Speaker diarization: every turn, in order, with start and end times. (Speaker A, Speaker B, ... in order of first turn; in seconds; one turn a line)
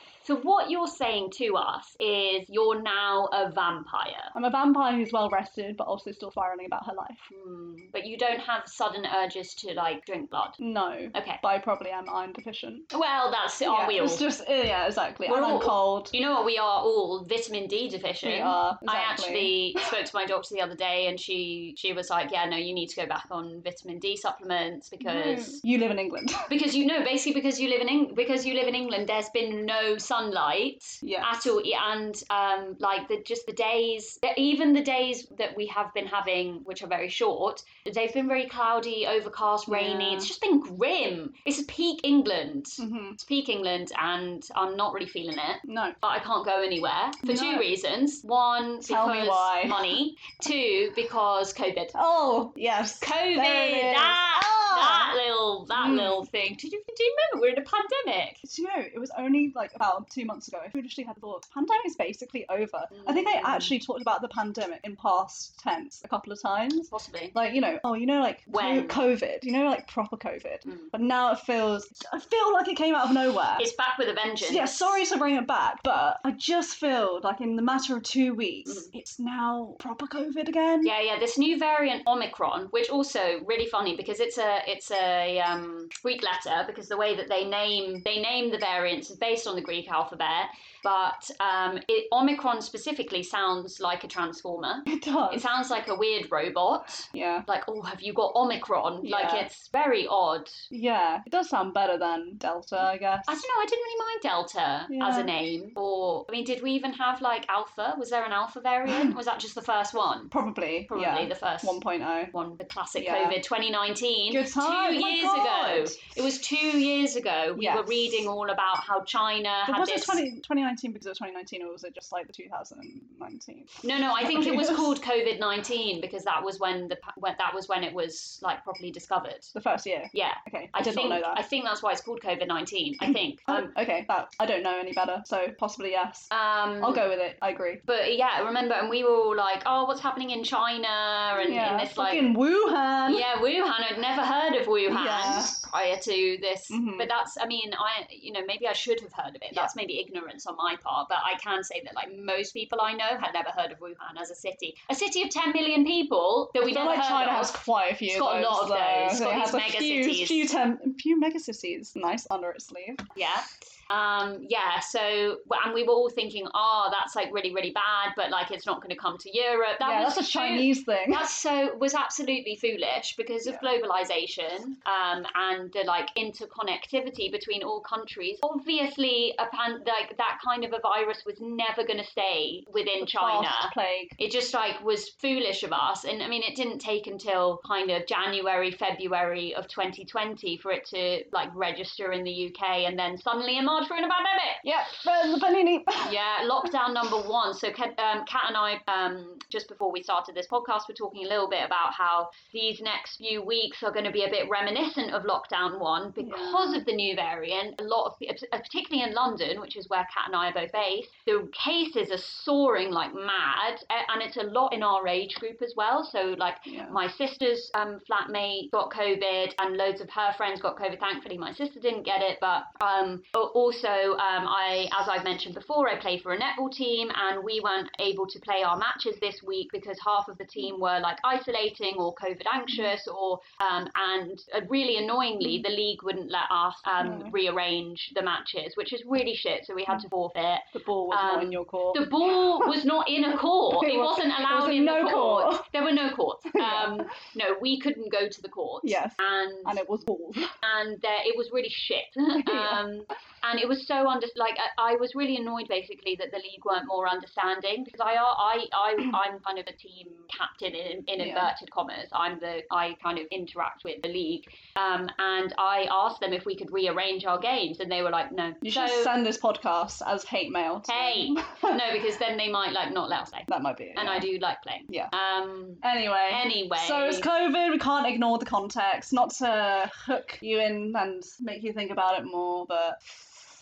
Speaker A: 0.2-4.3
Speaker B: 4.3-7.3
Speaker A: 7.3-10.6
Speaker B: 10.6-12.9
Speaker A: 11.1-11.4
Speaker A: 12.9-14.2
Speaker B: 13.6-16.1
Speaker A: 15.3-25.6
Speaker B: 18.2-19.9
Speaker B: 25.0-26.4
Speaker A: 26.5-52.0
Speaker B: 31.0-31.3
Speaker B: 39.7-40.3
Speaker B: 42.8-43.2
Speaker B: 45.6-46.0
Speaker B: 47.2-47.7
Speaker B: 48.8-49.9
Speaker B: 51.9-55.2
Speaker A: 53.0-58.4
Speaker B: 55.7-56.3
Speaker B: 58.4-73.7
Speaker A: 62.9-63.8
Speaker A: 66.9-67.4
Speaker A: 68.5-69.0
Speaker A: 70.7-70.9
Speaker A: 73.6-75.0
Speaker B: 74.4-80.9
Speaker A: 78.7-78.9
Speaker A: 80.8-100.7
Speaker B: 94.9-95.6
Speaker B: 97.1-97.5
Speaker B: 99.0-99.5
Speaker B: 100.7-103.5
Speaker A: 103.3-110.3
Speaker B: 104.9-105.3
Speaker B: 108.9-109.2
Speaker B: 110.3-112.3
Speaker A: 110.9-111.8
Speaker A: 112.3-120.2
Speaker B: 113.0-113.4
Speaker B: 114.3-116.1
Speaker B: 117.5-118.3
Speaker B: 119.7-125.0
Speaker A: 123.8-129.5
Speaker B: 129.5-131.4
Speaker A: 130.1-133.7
Speaker B: 133.0-137.8
Speaker A: 136.3-137.1
Speaker A: 137.9-142.3
Speaker B: 141.4-143.3
Speaker A: 143.1-160.5
Speaker B: 144.9-145.6
Speaker B: 146.7-147.1
Speaker B: 156.6-163.1
Speaker A: 163.2-195.0
Speaker B: 169.8-171.3
Speaker B: 183.0-184.2
Speaker B: 194.6-196.1
Speaker A: 196.0-249.8
Speaker B: 206.2-206.8
Speaker B: 216.7-217.0
Speaker B: 237.0-237.3
Speaker B: 240.7-242.7
Speaker B: 243.7-245.7
Speaker B: 246.5-247.1
Speaker B: 248.8-250.6
Speaker A: 250.6-269.1
Speaker B: 252.4-252.8
Speaker B: 261.2-261.5
Speaker B: 268.6-271.9
Speaker A: 270.9-277.3
Speaker B: 273.5-274.3
Speaker B: 275.8-283.4